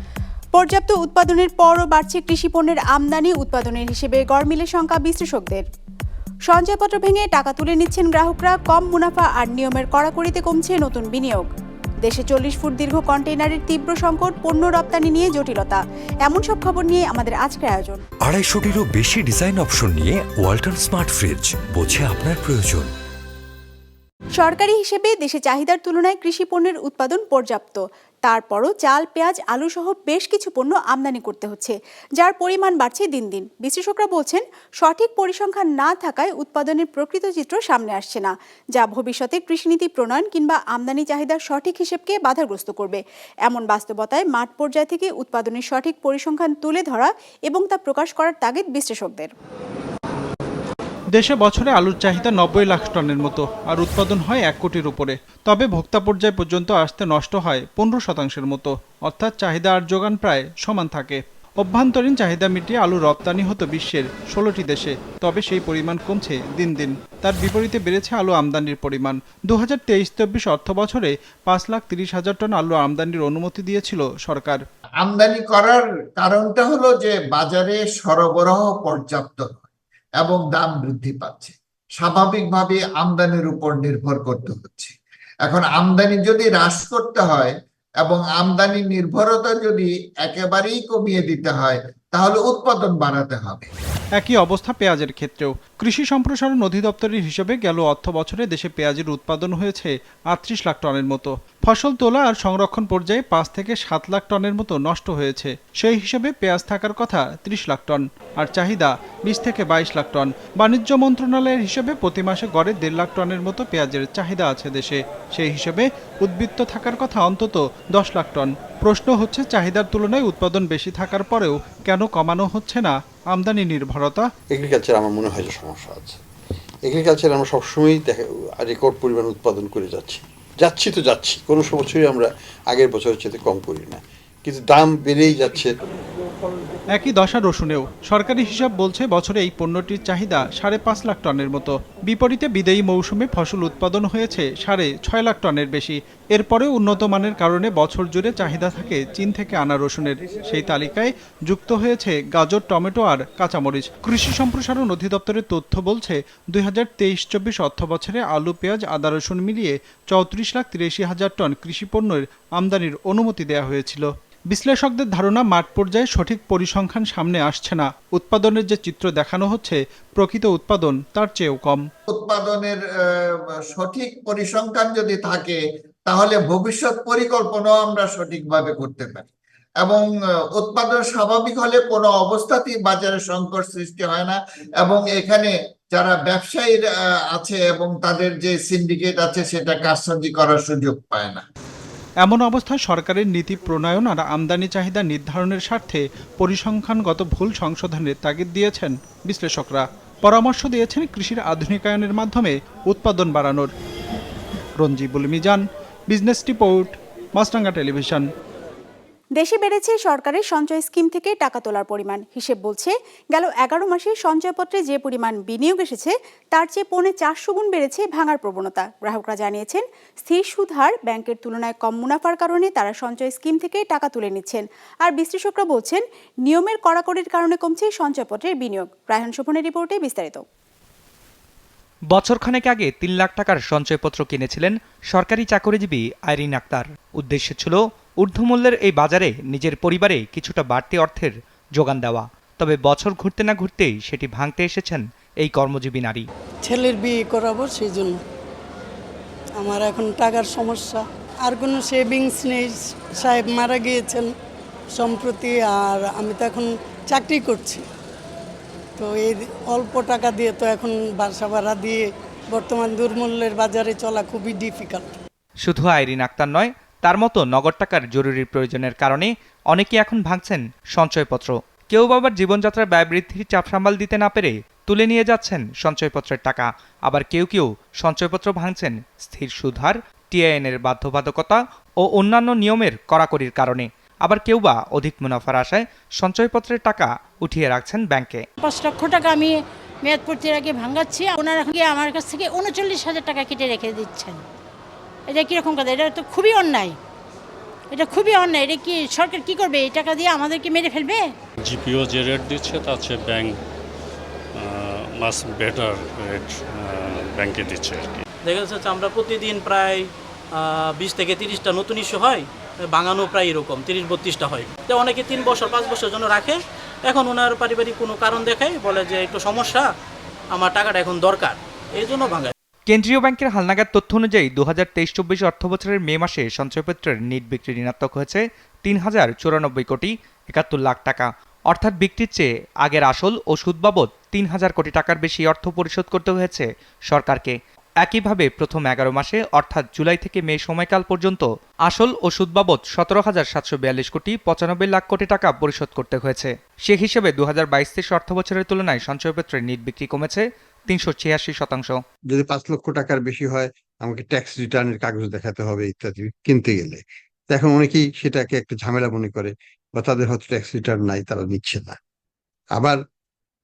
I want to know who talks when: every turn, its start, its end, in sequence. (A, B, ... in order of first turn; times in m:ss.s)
0:00.5-0:05.6 A
0:06.5-0:11.5 A
0:12.0-0:18.0 A
0:18.2-0:22.9 B
0:24.4-0:49.3 A
0:51.1-1:14.6 C
1:15.0-1:19.6 D
1:20.2-1:33.7 D
1:34.2-2:04.3 C
2:04.5-2:06.2 E
2:06.8-2:15.7 E
2:16.9-2:51.8 C
2:52.1-2:59.3 D
2:59.8-3:11.4 D
3:12.2-3:23.7 C
3:24.8-3:28.3 C
3:29.4-3:50.4 A
3:52.1-4:06.2 F
4:06.6-4:08.2 G
4:09.6-4:14.3 G
4:14.9-4:17.8 G
4:19.0-4:25.1 G
4:25.6-4:48.4 F
4:48.6-4:54.4 H
4:55.3-4:57.0 H
4:57.9-5:01.2 H
5:01.6-5:03.6 I
5:04.5-5:08.2 I
5:08.4-5:19.9 J
5:20.5-5:22.5 J
5:22.9-5:52.0 F
5:52.3-6:02.0 E